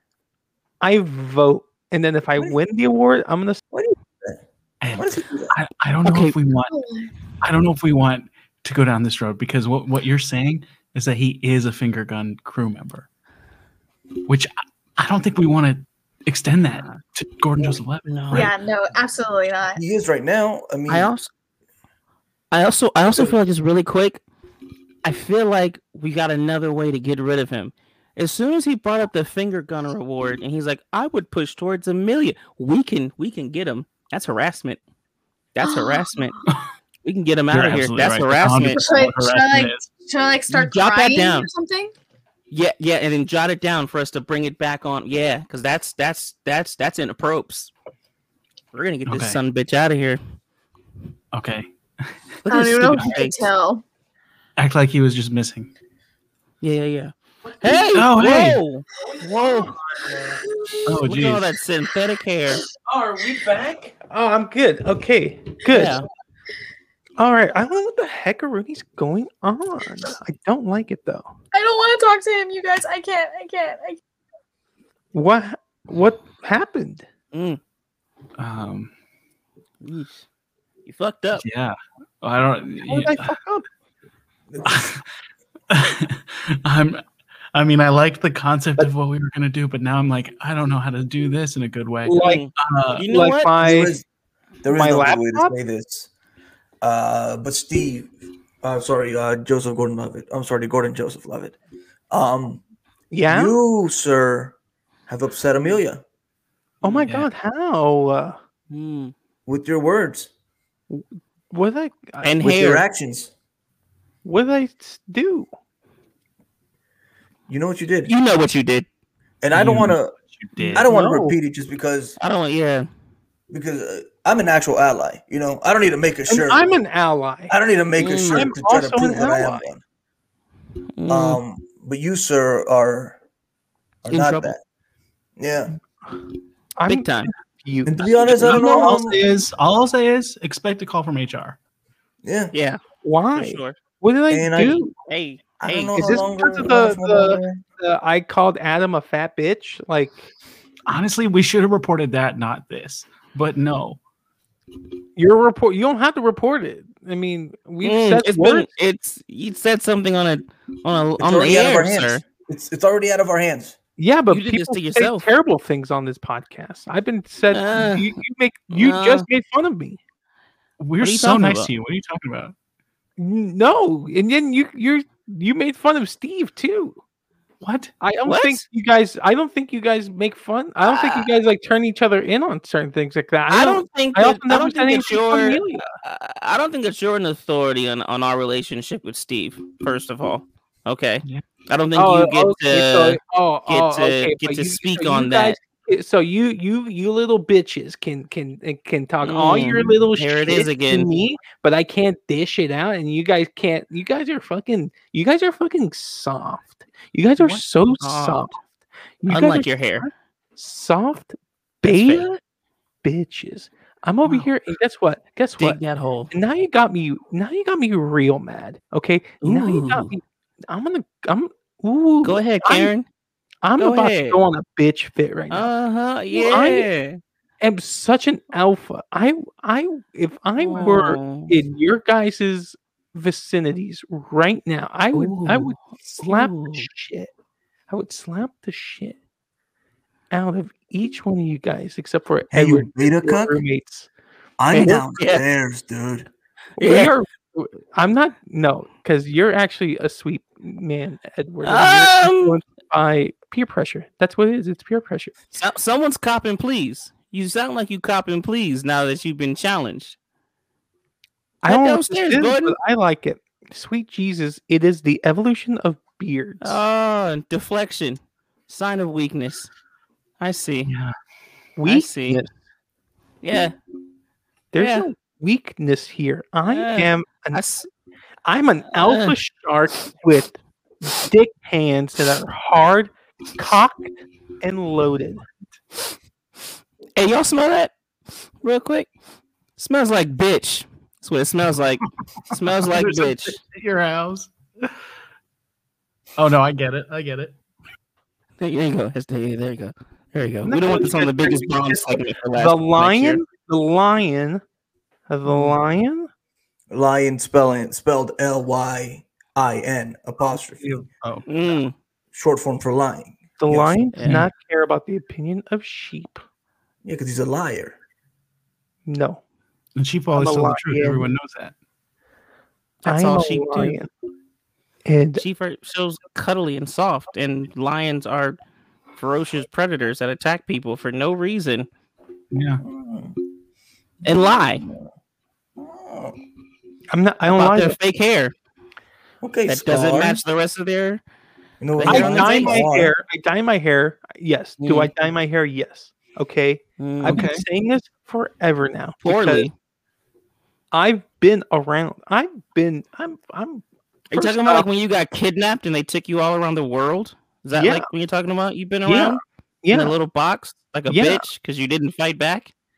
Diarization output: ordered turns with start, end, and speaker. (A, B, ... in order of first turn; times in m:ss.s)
0:00.8-0:03.6 A
0:03.7-0:04.4 B
0:04.8-0:06.7 C
0:04.9-0:05.5 B
0:06.0-0:06.3 D
0:06.7-0:07.1 E
0:07.4-0:13.1 C
0:14.3-0:18.5 C
0:16.7-0:17.0 D
0:18.0-0:18.5 D
0:18.3-0:19.8 E
0:19.8-0:21.1 B
0:20.9-0:21.3 D
0:22.5-0:24.2 D
0:25.0-0:34.8 D
0:35.5-0:36.4 D
0:35.6-0:36.1 E
0:37.0-0:38.8 D
0:37.5-0:39.9 C
0:38.8-0:41.9 E
0:40.5-0:41.5 D
0:42.5-0:47.7 D
0:48.7-0:50.2 D
0:49.1-0:49.4 C
0:51.3-0:52.1 C
0:52.4-0:53.4 D
0:52.5-0:53.8 E
0:54.6-0:55.7 C
0:56.6-0:59.7 D
0:57.9-0:58.6 C
0:59.2-1:00.4 A
1:00.9-1:01.5 C
1:01.0-1:02.6 D
1:02.9-1:06.0 A
1:05.7-1:06.0 D
1:07.2-1:11.3 A
1:11.5-1:14.0 E
1:15.1-1:17.0 A
1:17.3-1:17.6 D
1:18.4-1:18.9 C
1:19.8-1:20.2 D
1:20.9-1:21.4 D
1:21.4-1:23.4 C
1:22.8-1:23.6 A
1:24.5-1:24.8 B
1:24.6-1:25.0 C
1:25.7-1:27.0 C
1:27.5-1:33.1 C
1:32.0-1:32.4 A
1:32.2-1:33.6 D
1:33.1-1:33.9 A
1:33.6-1:34.0 B
1:34.6-1:36.1 B
1:34.7-1:35.5 A
1:36.8-1:41.6 B
1:42.1-1:42.6 B
1:43.1-1:43.6 A
1:43.3-1:44.6 B
1:45.1-1:46.0 B
1:46.8-1:48.4 A
1:47.0-1:47.3 C
1:48.7-1:49.1 D
1:49.5-1:50.3 B
1:50.9-1:52.4 A
1:52.2-1:52.8 D
1:52.4-1:53.3 B
1:54.2-1:55.5 A
1:57.5-1:58.1 B
1:58.1-1:58.9 D
1:59.4-2:00.1 B
1:59.5-2:00.9 C
2:00.6-2:01.4 A
2:00.7-2:02.2 B
2:02.2-2:02.9 D
2:03.5-2:06.7 B
2:06.3-2:07.5 A
2:07.5-2:09.8 B
2:08.0-2:08.5 D
2:08.3-2:09.6 A
2:11.0-2:11.4 D
2:11.1-2:13.2 B
2:14.0-2:14.6 B
2:14.1-2:14.5 D
2:15.4-2:15.7 B
2:16.8-2:19.0 A
2:16.9-2:17.3 D
2:17.9-2:19.2 B
2:18.4-2:21.6 C
2:22.2-2:22.5 B
2:22.5-2:22.8 D
2:23.0-2:24.9 A
2:23.3-2:23.8 D
2:24.3-2:24.8 B
2:25.1-2:26.2 D
2:25.6-2:27.6 B
2:25.9-2:30.3 A
2:30.9-2:34.0 C
2:35.2-2:38.7 A
2:37.8-2:42.2 D
2:41.2-2:43.8 B
2:44.0-2:50.0 A
2:44.3-2:45.3 D
2:47.5-2:48.2 D
2:48.7-2:49.3 D
2:50.8-2:52.5 C
2:51.0-2:51.7 D
2:53.2-2:57.0 A
2:57.6-2:57.9 C
2:58.0-3:05.9 A
2:58.2-2:58.6 D
3:00.8-3:01.3 D
3:03.5-3:15.6 D
3:11.9-3:28.6 A
3:19.2-3:21.1 D
3:27.4-3:28.5 D
3:29.2-3:32.4 A
3:29.3-3:30.1 D
3:31.9-3:32.2 D
3:33.0-3:35.8 A
3:35.6-3:36.3 D
3:36.3-3:42.9 A
3:39.4-3:40.1 D
3:42.2-3:43.0 D
3:43.6-3:45.7 A
3:43.8-3:44.4 D
3:45.5-3:47.2 D
3:46.3-3:46.9 A
3:47.6-3:57.3 A
3:50.6-3:51.5 D
3:55.1-3:56.9 D
3:57.9-3:59.2 A
4:00.3-4:04.1 A
4:02.5-4:03.6 B
4:04.6-4:06.3 B
4:04.7-4:05.4 D
4:06.8-4:15.3 A
4:06.8-4:07.1 D
4:11.6-4:12.6 D
4:15.5-4:20.2 D
4:21.6-4:22.7 D
4:21.6-4:26.8 A
4:26.6-4:29.7 D
4:30.4-4:30.9 D
4:30.9-4:31.1 C
4:31.8-4:32.5 A
4:31.9-4:32.4 D
4:33.4-4:33.7 D
4:34.7-4:37.6 A
4:34.8-4:35.1 D
4:36.6-4:37.9 D
4:38.4-4:45.4 A
4:38.9-4:39.4 D
4:47.2-4:47.9 D
4:48.6-4:49.1 D
4:49.8-4:53.6 D
4:52.5-4:54.9 C
4:56.4-4:57.5 C
4:58.6-5:03.4 D
5:00.6-5:04.6 A
5:05.3-5:06.3 A
5:06.9-5:10.9 B
5:10.9-5:11.4 C
5:11.5-5:11.9 D
5:12.3-5:14.0 B
5:13.6-5:16.4 A
5:14.2-5:14.4 D
5:14.2-5:14.5 C
5:17.0-5:18.0 B
5:19.0-5:19.4 A
5:20.0-5:21.7 C
5:20.3-5:21.2 A
5:23.0-5:24.0 D
5:23.0-5:24.1 A
5:25.0-5:25.4 A
5:25.4-5:28.6 D
5:29.2-5:31.9 D
5:32.5-5:32.8 C
5:32.8-5:33.4 B
5:34.2-5:34.8 D
5:34.6-5:35.1 B
5:35.8-5:36.4 B
5:37.1-5:38.0 A
5:37.5-5:38.5 D
5:39.4-5:40.4 B
5:39.6-5:41.2 D
5:41.8-5:43.1 B
5:42.0-5:42.8 D
5:42.0-5:49.7 A
5:44.8-5:45.1 D
5:47.0-5:47.4 D
5:47.3-5:47.6 C
5:49.2-5:49.7 D
5:50.9-5:54.8 A
5:54.3-6:02.7 D
5:57.7-5:58.0 A
5:59.0-6:00.1 A
6:01.1-6:01.4 A